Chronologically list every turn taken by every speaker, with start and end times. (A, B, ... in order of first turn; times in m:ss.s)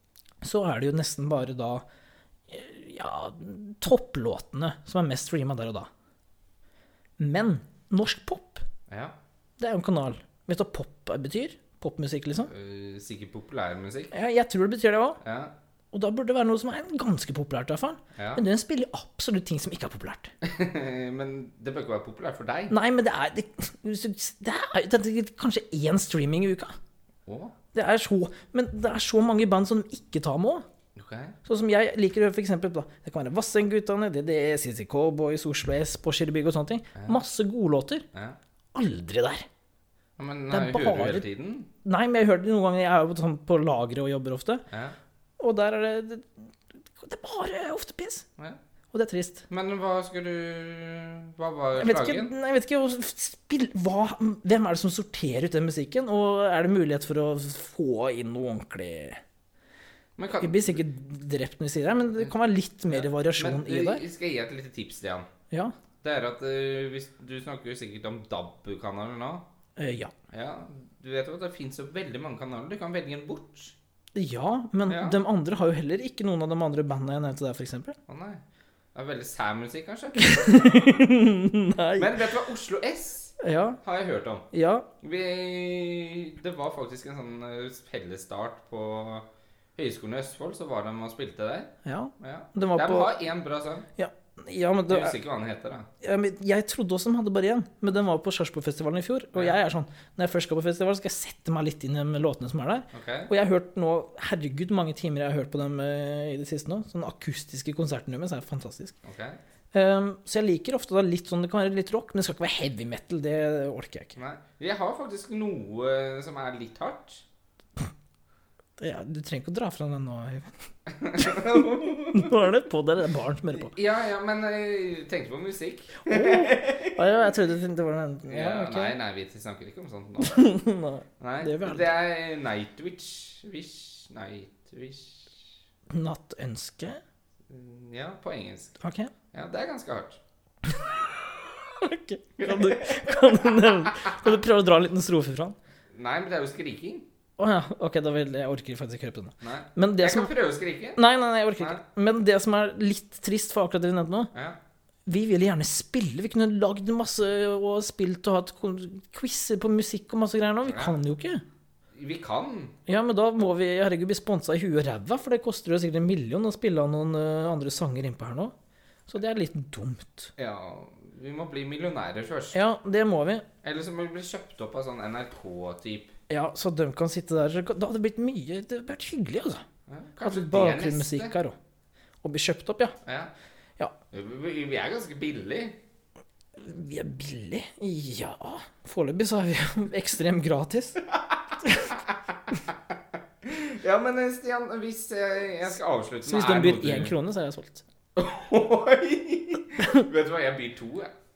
0:00.4-0:01.8 A
0:02.5-0:05.9 A
0:07.2-0:08.6 A
0:08.9-0:09.2 B
0:09.6-0:12.5 A
0:12.5-0:14.1 B
0:14.1-0:15.2 A
0:15.2-0:15.5 B
0:15.9-0:20.3 A
0:18.2-0:18.4 B
0:20.4-0:22.8 B
0:22.7-0:26.8 A
0:27.3-0:27.6 B
0:27.7-0:30.7 A
0:31.0-0:31.4 B
0:31.4-0:38.0 A
0:37.0-0:37.2 B
0:38.1-0:38.4 B
0:38.7-0:39.5 A
0:40.2-0:41.7 B
0:40.5-0:41.2 A
0:41.8-0:44.7 A
0:44.7-0:45.0 B
0:45.4-0:48.3 A
0:48.9-0:49.5 A
0:49.5-0:52.3 B
0:51.8-0:59.2 A
1:00.2-1:00.8 B
1:00.4-1:04.0 A
1:02.9-1:05.3 B
1:06.0-1:09.5 B
1:09.8-1:10.1 A
1:10.3-1:13.8 B
1:14.2-1:18.0 A
1:14.9-1:15.2 B
1:18.1-1:18.4 B
1:18.9-1:21.0 B
1:20.2-1:22.2 A
1:22.0-1:24.5 B
1:23.4-1:23.8 A
1:24.5-1:24.9 A
1:25.0-1:33.9 B
1:31.8-1:33.1 A
1:34.0-1:35.2 A
1:34.9-1:35.9 B
1:36.0-1:49.0 A
1:42.9-1:43.3 B
1:49.0-1:49.4 B
1:49.7-1:54.2 A
1:54.2-1:57.2 B
1:58.8-2:00.5 A
2:00.9-2:02.4 B
2:01.2-2:03.7 A
2:03.6-2:07.0 B
2:06.0-2:09.0 A
2:08.3-2:10.4 B
2:10.2-2:11.9 A
2:11.2-2:15.6 B
2:15.9-2:17.0 A
2:17.5-2:18.8 B
2:18.8-2:19.1 A
2:19.3-2:20.2 B
2:21.6-2:25.6 A
2:22.4-2:23.9 B
2:25.9-2:27.1 B
2:27.4-2:30.3 A
2:29.4-2:31.0 B
2:31.0-2:34.3 A
2:35.1-2:41.4 A
2:40.7-2:41.0 B
2:41.9-2:42.8 B
2:42.9-2:48.5 A
2:49.1-2:50.3 A
2:50.4-2:52.6 B
2:52.5-2:53.5 A
2:53.6-2:56.1 B
2:56.3-2:59.6 A
2:59.9-3:01.3 B
3:00.2-3:01.6 A
3:02.2-3:03.0 A
3:03.0-3:03.3 B
3:04.1-3:05.8 B
3:06.6-3:11.1 A
3:11.6-3:12.0 A
3:12.0-3:12.8 B
3:13.4-3:17.2 B
3:16.2-3:17.8 A
3:18.2-3:21.1 B
3:19.8-3:20.0 A